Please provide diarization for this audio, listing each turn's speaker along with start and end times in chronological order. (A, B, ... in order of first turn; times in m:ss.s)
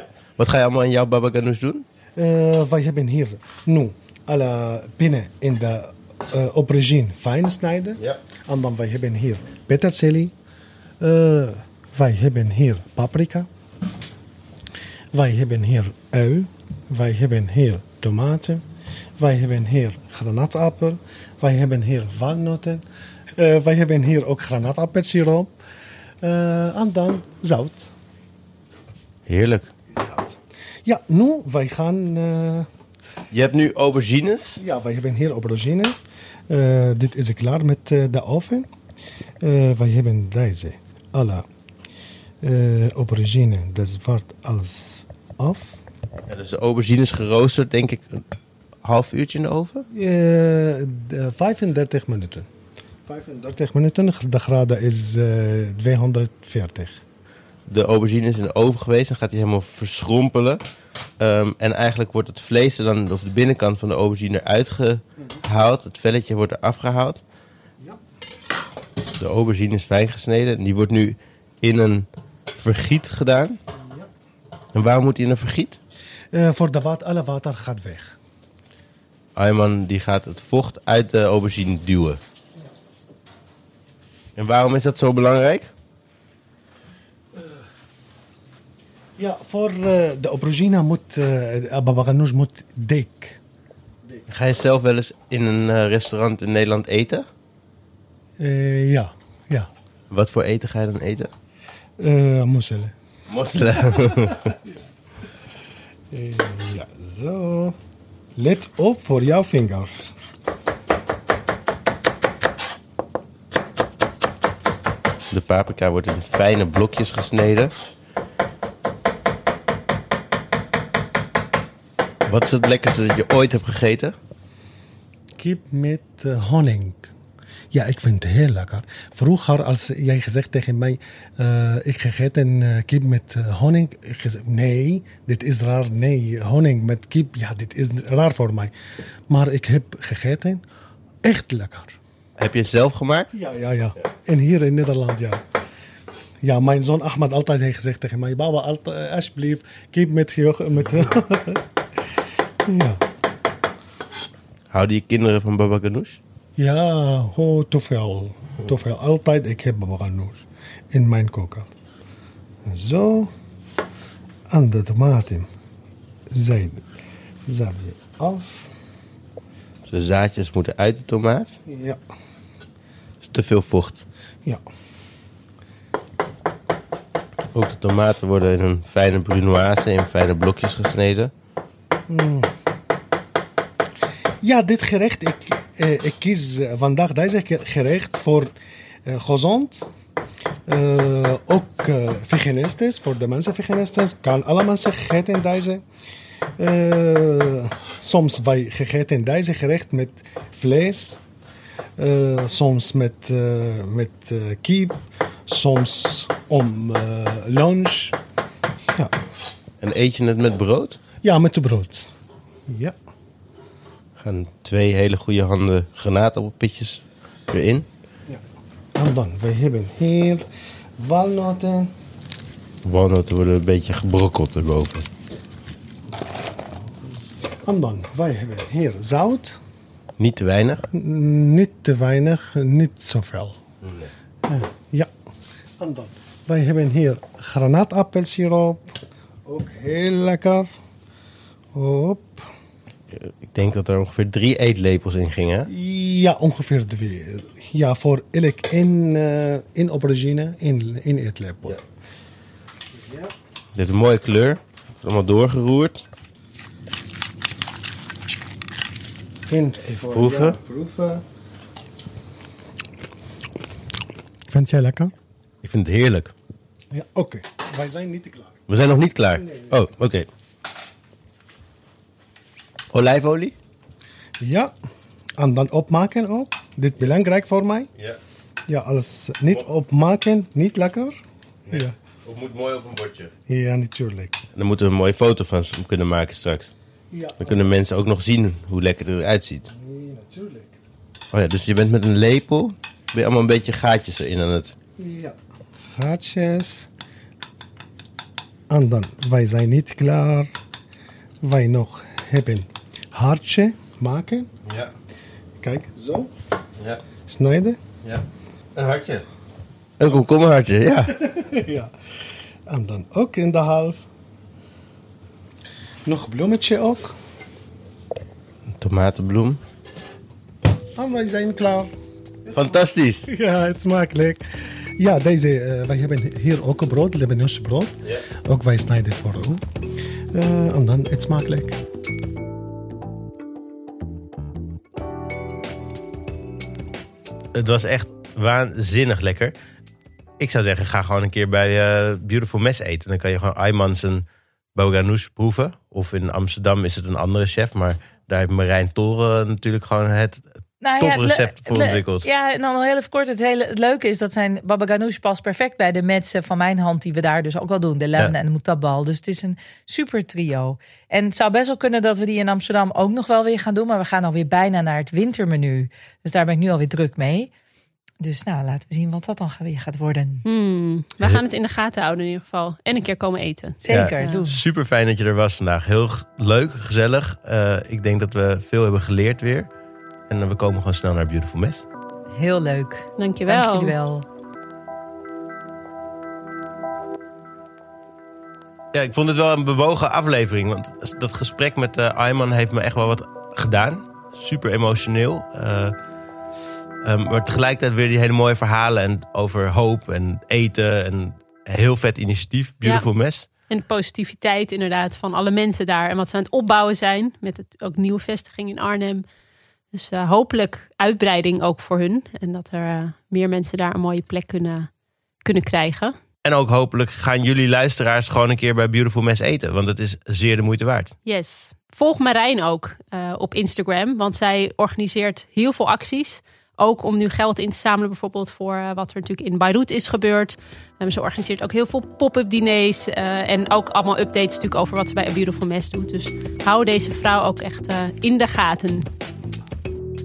0:00.4-0:01.8 A
0:02.2-0:10.3 B
0:11.0-0:13.5 B
0:15.1-0:18.6 B
0:19.2-0:22.8 B
0:23.3-0:25.5 B
0:26.2-0:27.9 B
0:29.3-0:29.7 A
0:29.9-0:32.7 B
0:33.3-0:34.6 A
0:34.6-0:38.7 B
0:39.4-0:41.5 B
0:42.4-0:45.8 B
0:46.3-0:48.2 A
0:48.8-0:49.8 A
0:49.9-0:52.5 B
0:53.1-0:57.0 B
0:57.7-1:00.6 A
1:01.2-1:07.2 A
1:09.2-1:13.6 A
1:13.7-1:14.1 B
1:14.7-1:15.8 A
1:16.3-1:18.2 B
1:19.3-1:22.2 A
1:24.4-1:25.7 A
1:27.4-1:27.6 B
1:29.2-1:33.4 B
1:34.3-1:37.2 A
1:38.4-1:39.7 B
1:40.1-1:41.3 A
1:42.0-1:42.9 B
1:43.3-1:44.6 A
1:46.1-1:47.8 B
1:48.4-1:50.1 B
1:55.3-1:57.8 A
2:02.2-2:04.1 A
2:05.4-2:07.1 B
2:07.7-2:18.7 B
2:19.3-2:20.6 B
2:21.2-2:22.0 B
2:22.4-2:23.3 A
2:23.3-2:25.4 B
2:26.4-2:31.6 B
2:32.6-2:33.0 B
2:34.7-2:36.2 A
2:36.6-2:41.8 B
2:42.6-2:43.3 B
2:44.5-2:45.5 B
2:46.3-2:48.7 B
2:49.9-2:51.6 A
2:51.6-2:52.0 B
2:53.2-2:54.0 A
2:57.5-3:01.3 A
3:02.1-3:02.5 B
3:04.4-3:08.5 B
3:09.0-3:09.9 B
3:10.7-3:15.8 B
3:16.6-3:21.2 B
3:22.0-3:28.2 B
3:28.9-3:29.2 B
3:29.8-3:31.0 A
3:31.2-3:32.1 B
3:32.7-3:33.0 B
3:34.2-3:37.8 A
3:38.9-3:40.4 B
3:41.0-3:41.9 B
3:42.8-3:45.1 A
3:47.6-3:49.6 B
3:50.2-3:50.9 A
3:50.9-3:53.6 B
3:53.8-3:54.1 A
3:54.4-3:55.1 B
3:55.8-4:00.7 B
4:01.7-4:02.5 B
4:03.1-4:05.7 A
4:05.7-4:11.8 B
4:12.9-4:13.3 B
4:13.7-4:16.0 A
4:19.5-4:21.2 B
4:19.9-4:20.6 A
4:24.5-4:25.1 B
4:25.6-4:26.3 A
4:26.9-4:28.6 B
4:28.7-4:30.3 A
4:29.4-4:29.7 B
4:32.9-4:33.5 A
4:34.4-4:34.7 B
4:35.4-4:37.9 B
4:38.7-4:41.9 B
4:41.7-4:43.3 A
4:43.5-4:44.4 B
4:44.5-4:46.7 A
4:47.1-4:47.7 B
4:47.4-4:49.7 A
4:49.7-4:50.8 B
4:51.3-4:54.7 A
4:55.0-4:55.4 B
4:55.9-4:56.9 B
4:58.7-5:00.5 B
5:01.4-5:04.5 B
5:04.6-5:04.9 A
5:05.6-5:06.3 B
5:07.2-5:07.8 B
5:08.0-5:09.2 A
5:10.0-5:11.3 A
5:11.2-5:11.9 B
5:12.6-5:14.0 B
5:16.0-5:17.2 B
5:18.8-5:19.6 A
5:21.0-5:21.9 B
5:22.5-5:23.3 A
5:23.3-5:29.6 B
5:30.3-5:31.8 B
5:37.5-5:39.5 A
5:40.4-5:50.5 A
5:50.8-6:07.5 C
5:51.0-5:52.3 A
6:08.2-6:10.4 C
6:10.4-6:14.4 D
6:13.8-6:14.6 C
6:13.9-6:19.7 A
6:20.3-6:21.8 A
6:22.4-6:24.2 C
6:23.2-6:23.9 D
6:28.9-6:35.9 A
6:37.0-6:43.5 A
6:43.7-6:49.2 D
6:49.9-6:54.9 D
6:55.4-6:56.1 D
6:56.4-7:01.1 A
7:01.2-7:19.1 D